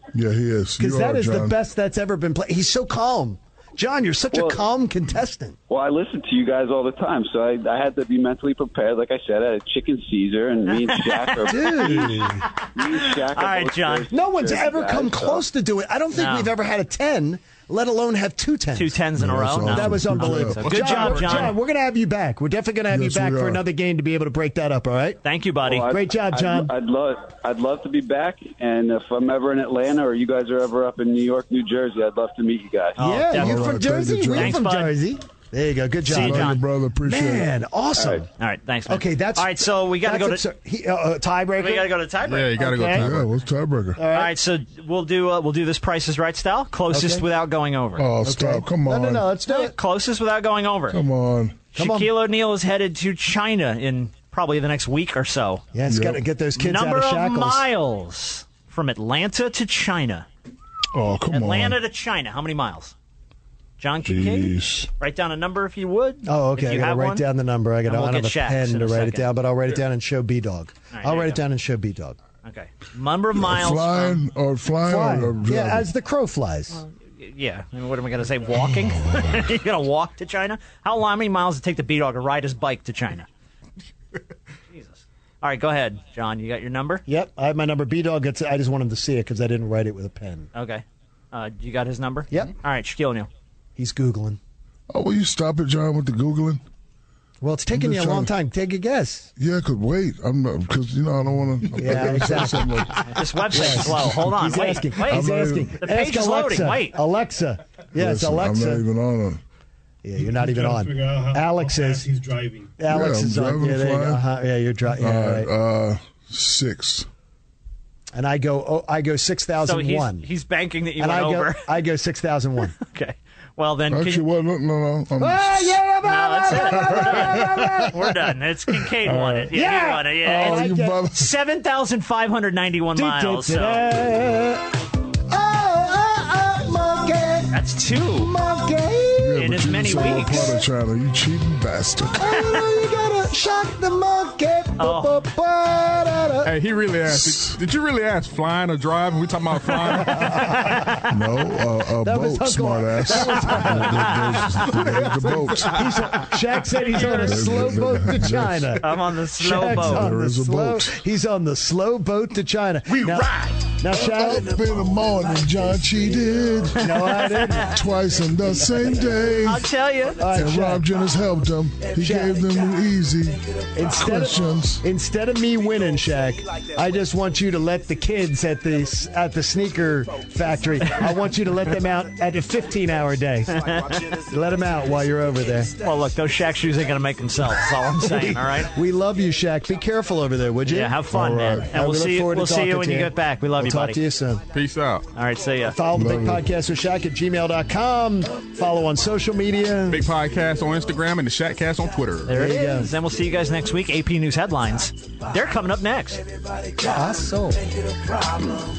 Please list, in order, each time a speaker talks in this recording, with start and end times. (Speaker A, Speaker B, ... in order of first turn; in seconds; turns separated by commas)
Speaker A: 0.1-1.6, Speaker B: 0.8-5.6, Speaker C: 4.3-4.7, Speaker C: 5.7-15.5, Speaker B: 11.5-12.5, Speaker D: 11.8-14.1, Speaker B: 14.1-19.0, Speaker D: 16.1-16.5, Speaker D: 18.8-21.6, Speaker A: 19.2-20.6, Speaker B: 19.6-25.2, Speaker E: 20.6-21.5, Speaker A: 22.9-23.6, Speaker D: 25.2-25.9, Speaker C: 25.6-33.0, Speaker B: 25.8-26.7, Speaker D: 33.0-35.0, Speaker B: 33.0-38.3, Speaker A: 33.4-34.6, Speaker D: 36.0-36.6, Speaker A: 36.1-37.5, Speaker C: 38.0-38.2, Speaker D: 38.4-40.4, Speaker B: 38.9-42.0, Speaker D: 41.6-43.0, Speaker E: 42.3-43.2, Speaker B: 42.6-43.1, Speaker A: 43.0-44.0, Speaker B: 44.0-44.3, Speaker D: 44.1-48.1, Speaker B: 46.9-47.2, Speaker A: 48.0-49.3, Speaker B: 48.2-49.8, Speaker D: 49.5-51.0, Speaker A: 50.9-51.6, Speaker B: 51.8-52.1, Speaker D: 51.8-55.6, Speaker B: 55.7-57.6, Speaker A: 55.9-56.2, Speaker D: 56.6-60.3, Speaker A: 60.9-61.8, Speaker D: 61.3-63.0, Speaker D: 63.8-67.2, Speaker A: 64.0-64.9, Speaker B: 66.2-72.2, Speaker D: 67.8-69.3, Speaker D: 70.9-71.4, Speaker D: 72.4-74.2, Speaker A: 73.3-75.9, Speaker B: 74.9-76.8, Speaker D: 76.7-83.3, Speaker A: 78.6-79.5, Speaker D: 84.7-87.0, Speaker B: 87.1-90.5, Speaker D: 90.5-93.3, Speaker B: 93.8-94.4, Speaker A: 94.9-96.6, Speaker B: 97.4-99.3, Speaker A: 97.7-98.3, Speaker A: 99.4-104.5, Speaker B: 101.8-103.0, Speaker D: 103.0-107.0, Speaker B: 103.5-108.8, Speaker A: 105.0-105.8, Speaker A: 108.0-109.4, Speaker B: 110.0-112.1, Speaker F: 110.4-112.7, Speaker B: 112.8-115.5, Speaker A: 112.9-114.2, Speaker A: 115.0-117.1, Speaker B: 118.1-120.3, Speaker D: 119.6-121.6, Speaker B: 121.0-122.8, Speaker D: 122.8-124.2, Speaker A: 123.9-125.8, Speaker B: 125.2-128.1, Speaker D: 126.0-133.9, Speaker A: 126.5-127.8, Speaker A: 129.0-129.5, Speaker B: 129.5-131.0, Speaker A: 130.2-131.3, Speaker B: 132.9-134.7, Speaker B: 135.3-139.4, Speaker D: 137.5-138.3, Speaker A: 139.2-142.4, Speaker D: 139.4-140.6, Speaker B: 142.2-146.5, Speaker D: 144.8-145.2, Speaker E: 146.4-150.3, Speaker A: 147.1-147.6, Speaker B: 150.0-151.0, Speaker A: 151.1-155.9, Speaker B: 152.0-164.9, Speaker D: 153.4-154.5, Speaker A: 156.9-158.8, Speaker D: 158.8-160.1, Speaker A: 159.6-161.0, Speaker A: 163.9-167.1, Speaker B: 166.8-167.8, Speaker A: 167.6-169.7, Speaker B: 168.6-169.3, Speaker D: 169.4-170.2, Speaker B: 170.2-170.8, Speaker A: 170.3-174.8, Speaker B: 172.0-172.4, Speaker B: 173.8-185.7, Speaker D: 183.6-184.0, Speaker D: 185.8-188.7, Speaker B: 188.0-191.0, Speaker D: 190.7-194.0, Speaker A: 191.1-191.7, Speaker B: 191.7-194.4, Speaker E: 194.5-195.1, Speaker D: 195.2-195.8, Speaker B: 195.7-200.0, Speaker A: 195.9-196.5, Speaker E: 199.9-202.3, Speaker D: 202.3-206.2, Speaker B: 202.3-202.9, Speaker B: 206.8-207.7